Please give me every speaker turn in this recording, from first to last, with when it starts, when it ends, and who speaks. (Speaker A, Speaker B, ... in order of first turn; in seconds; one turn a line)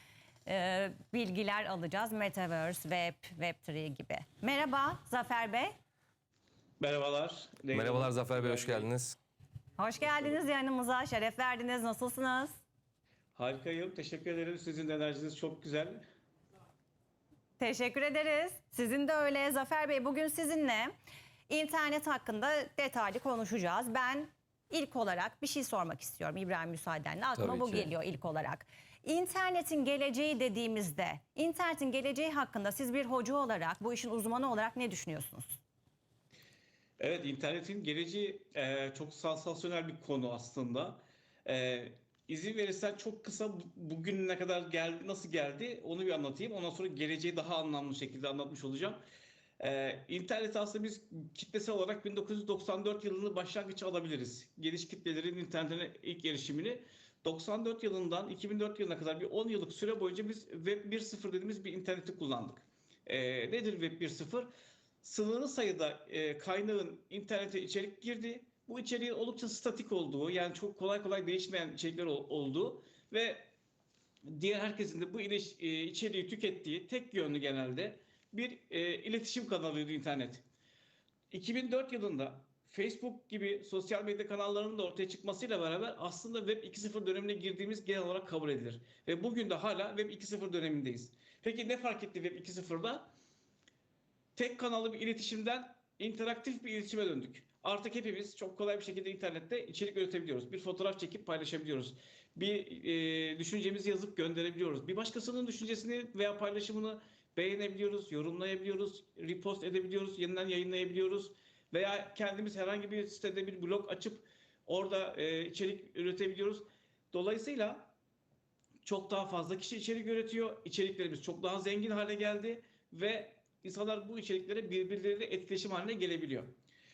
Speaker A: 0.5-5.7
Speaker B: 6.8-8.9
Speaker C: 7.7-9.2
Speaker A: 9.8-12.6
Speaker B: 13.4-16.0
Speaker A: 17.6-20.9
Speaker A: 21.5-35.6
Speaker C: 27.4-27.9
Speaker B: 37.0-49.0
Speaker B: 49.6-64.5
Speaker B: 65.0-73.5
Speaker B: 74.3-80.4
Speaker B: 81.3-93.1
Speaker B: 94.4-117.9
Speaker B: 118.8-126.5